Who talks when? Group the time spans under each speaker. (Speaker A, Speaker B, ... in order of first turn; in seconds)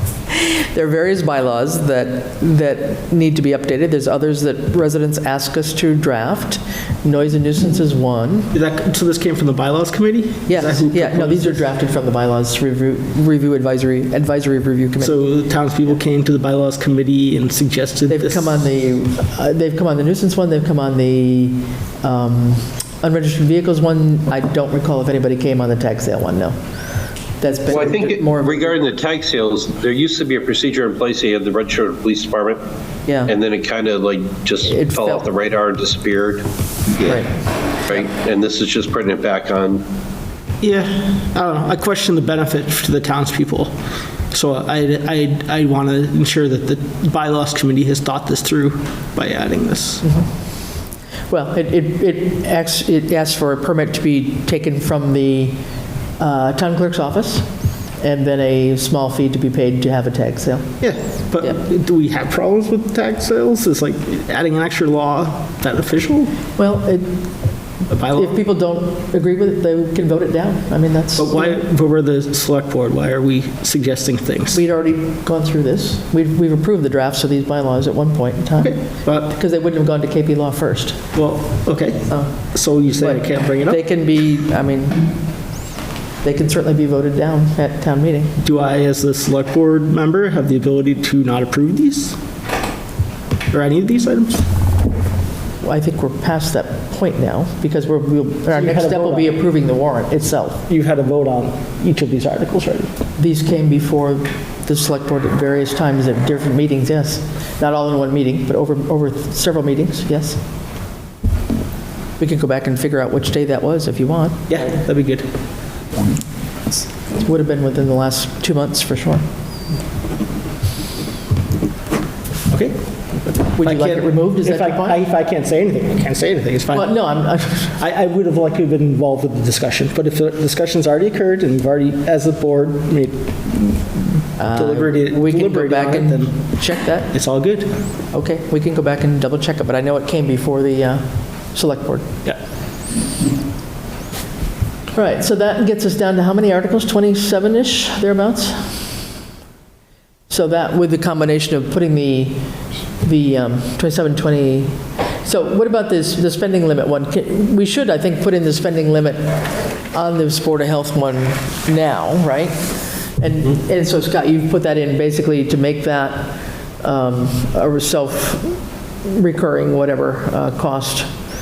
Speaker A: 0.3-8.5, 10.5-15.2, 18.1-26.6, 27.4-28.7, 33.1-33.3, 34.6-35.3, 37.0-37.3, 51.3-55.6, 56.2-57.5, 58.0-60.8, 66.6-67.2, 68.1-71.6, 74.5-81.1, 82.1-82.4, 83.0-85.1, 86.2-88.4, 95.6-100.7, 103.2-110.4, 112.2-114.5, 117.1-119.2, 123.6-125.0, 126.7-127.8, 134.4-137.1, 138.1-142.1, 144.9-148.8, 150.3-152.4, 153.0-159.4, 159.9-171.1
Speaker B: 8.5-11.6, 15.0-18.6, 40.6-43.7, 44.3-50.0, 60.8-66.3, 67.9-68.4, 71.2-74.6, 78.6-79.3, 81.1-83.8, 88.4-92.2, 93.5-94.5, 98.5-99.4, 100.7-102.9, 114.5-115.3, 122.5-127.0, 127.8-136.6, 137.1-137.7
Speaker C: 27.7-32.6, 33.3-36.5, 37.9-39.8